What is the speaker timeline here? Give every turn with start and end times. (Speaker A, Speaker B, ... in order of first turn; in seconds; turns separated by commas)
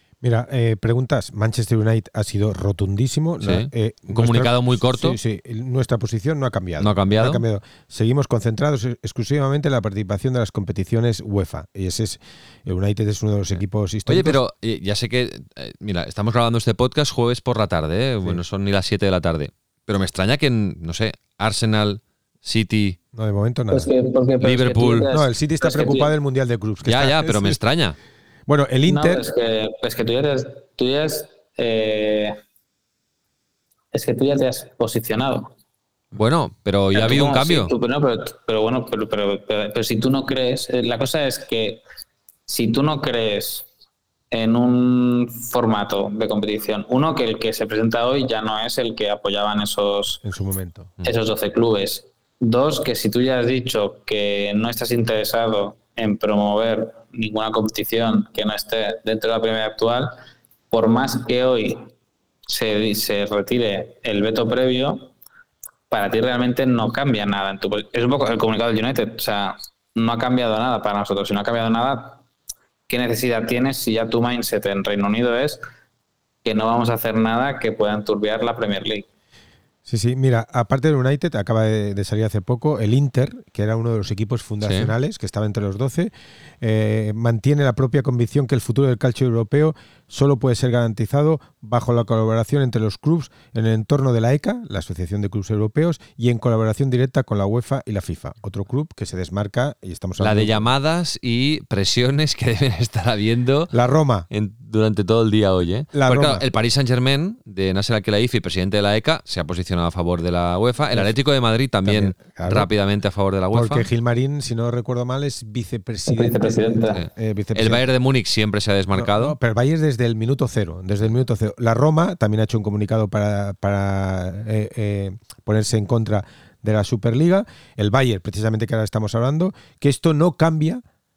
Speaker A: 0.2-14.4, Speaker B: 3.4-5.2, Speaker B: 6.8-7.4, Speaker B: 14.1-23.0, Speaker A: 23.1-23.9, Speaker C: 23.7-26.1, Speaker B: 24.4-25.1, Speaker A: 25.1-27.6, Speaker B: 26.8-28.0, Speaker A: 28.5-29.3, Speaker C: 28.9-32.4, Speaker C: 33.9-35.5, Speaker B: 36.1-37.7, Speaker C: 36.9-41.8, Speaker C: 42.5-43.7, Speaker C: 44.3-50.2, Speaker A: 50.2-50.9, Speaker C: 51.0-60.1, Speaker C: 60.7-61.9, Speaker C: 62.5-65.1, Speaker C: 65.9-72.2, Speaker C: 72.9-75.6, Speaker C: 76.4-79.1, Speaker A: 79.9-100.7, Speaker B: 84.6-84.9, Speaker B: 100.2-103.7, Speaker A: 103.7-104.3, Speaker B: 104.3-113.9, Speaker A: 105.9-106.5, Speaker A: 111.8-112.7, Speaker A: 113.5-117.9, Speaker C: 116.1-117.0, Speaker B: 116.9-119.3, Speaker A: 118.9-130.8